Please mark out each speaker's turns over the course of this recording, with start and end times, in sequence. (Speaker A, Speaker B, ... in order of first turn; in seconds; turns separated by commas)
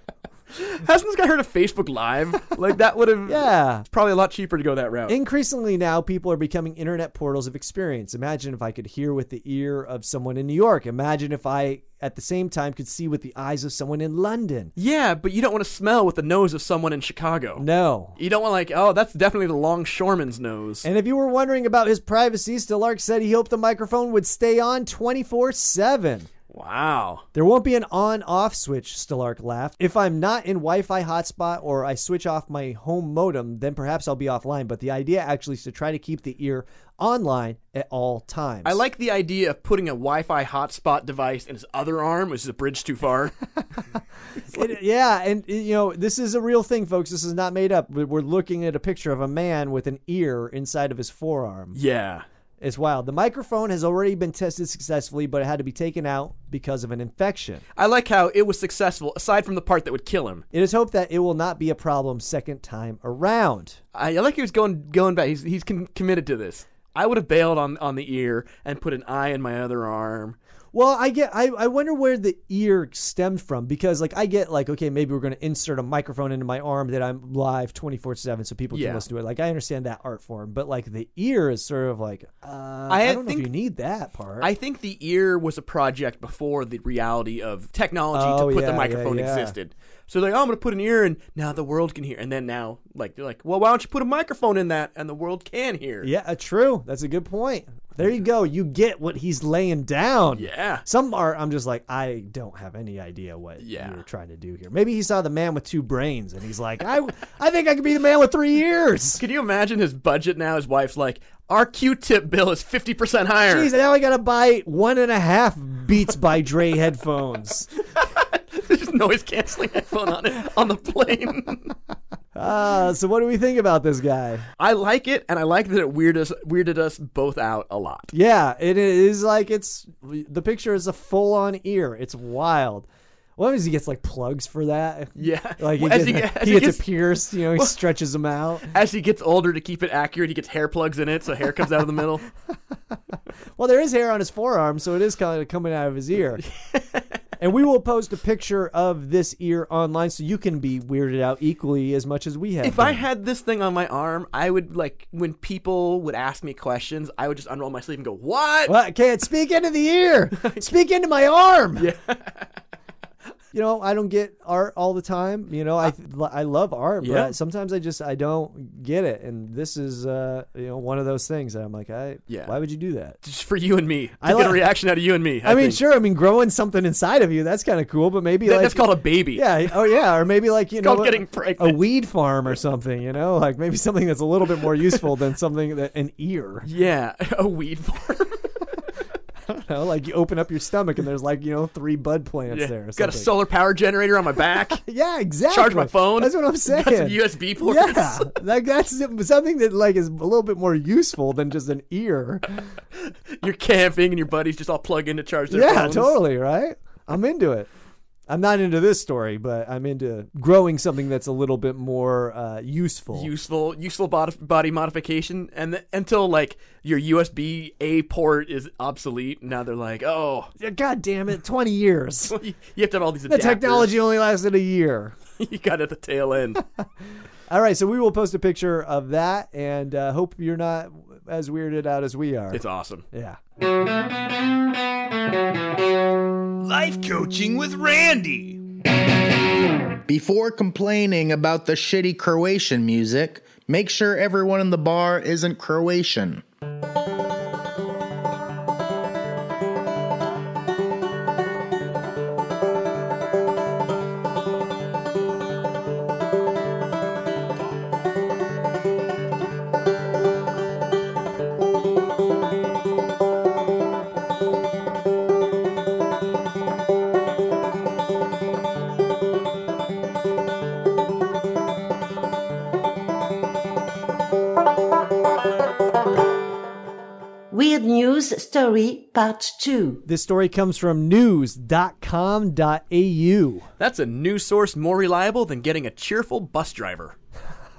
Speaker A: 0.5-5.2, Speaker B: 3.2-3.9, Speaker B: 5.1-14.7, Speaker A: 14.8-17.6, Speaker B: 17.6-18.1, Speaker A: 18.2-20.9, Speaker B: 20.8-26.3, Speaker A: 26.5-27.2, Speaker B: 27.3-38.8, Speaker A: 38.6-43.3, Speaker B: 44.5-51.8, Speaker A: 51.7-52.2, Speaker B: 52.6-57.6, Speaker A: 57.8-60.4, Speaker B: 60.5-63.8, Speaker A: 63.9-70.4, Speaker B: 70.7-84.5, Speaker A: 78.7-79.0, Speaker A: 82.9-83.5, Speaker A: 84.4-96.1, Speaker B: 88.1-89.5, Speaker B: 96.0-109.2, Speaker A: 100.3-100.8, Speaker A: 103.6-104.0, Speaker A: 109.2-113.7, Speaker B: 113.5-117.7, Speaker A: 118.0-121.7, Speaker B: 122.3-124.5, Speaker A: 124.6-128.1, Speaker B: 128.1-138.7, Speaker A: 135.2-137.0, Speaker A: 137.5-137.8, Speaker A: 138.7-142.2, Speaker B: 143.6-146.4, Speaker B: 147.4-153.0, Speaker A: 152.6-158.8, Speaker B: 158.7-161.9, Speaker A: 160.4-160.6, Speaker A: 161.8-162.5, Speaker B: 163.5-173.2, Speaker A: 167.0-167.3, Speaker A: 172.3-172.5, Speaker A: 173.2-175.8, Speaker B: 174.2-174.6, Speaker B: 175.4-186.7, Speaker A: 178.4-179.5, Speaker A: 180.8-181.8, Speaker A: 186.6-188.5, Speaker B: 189.5-193.3, Speaker A: 192.5-194.8, Speaker B: 194.8-202.7, Speaker A: 195.5-198.3, Speaker A: 203.0-206.2, Speaker B: 205.5-207.7, Speaker B: 208.3-213.3, Speaker A: 213.1-220.5, Speaker B: 220.6-222.4, Speaker A: 222.3-223.9, Speaker B: 223.3-225.2, Speaker A: 225.4-226.6, Speaker B: 227.5-233.4, Speaker A: 232.5-233.0, Speaker C: 236.6-238.6, Speaker D: 240.1-246.4, Speaker E: 277.5-280.0, Speaker B: 280.0-283.7, Speaker A: 283.8-287.1